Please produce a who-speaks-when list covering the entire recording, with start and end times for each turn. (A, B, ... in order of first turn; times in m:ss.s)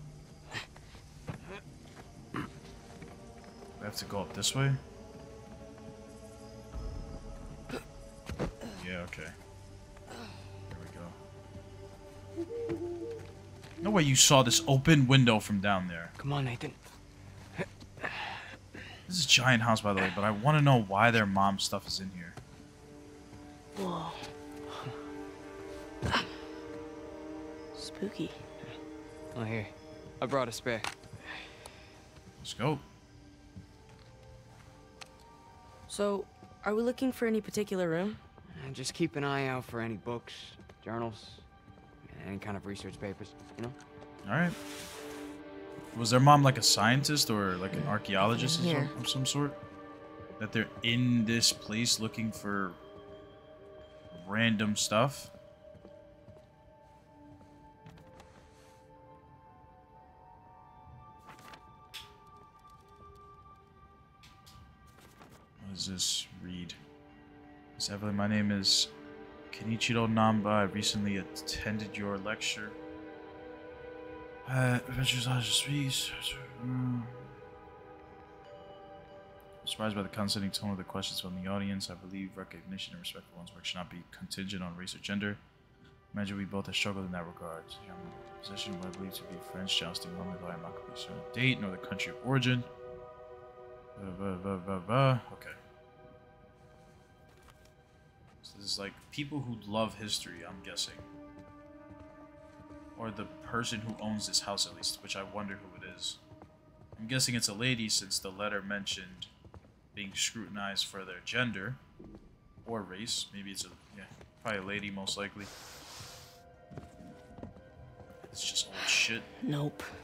0:03.8-0:04.8 A
0:08.7-0:09.3 A
0:10.7-0:11.2 A
0:13.8-0:16.1 A
0:16.2-0:16.8 B
0:17.5-0:18.5 B
0:19.1-0:22.4 A
0:23.8-0:24.2 C
0:27.8-0:28.4 C
0:29.4-0:30.9 B
0:32.4-0:32.8 A
0:35.9-0:38.2 C
0:38.5-0:41.4 B
0:42.0-0:43.8 B
0:44.2-0:44.6 A
0:45.9-0:49.6 A
0:47.7-0:48.9 C
0:50.4-0:52.8 A
0:54.1-0:55.3 A
1:05.6-1:06.8 A
1:07.8-1:08.9 A
1:09.5-1:12.8 A
1:14.4-1:17.3 A
1:19.6-1:25.4 A
1:26.1-1:32.7 A
1:34.0-1:35.6 A
1:38.4-1:41.0 A
1:43.0-1:46.2 A
1:47.0-1:49.3 A
1:49.9-1:51.8 A
1:52.6-1:55.5 A
1:58.2-1:59.3 A
1:59.4-1:59.9 C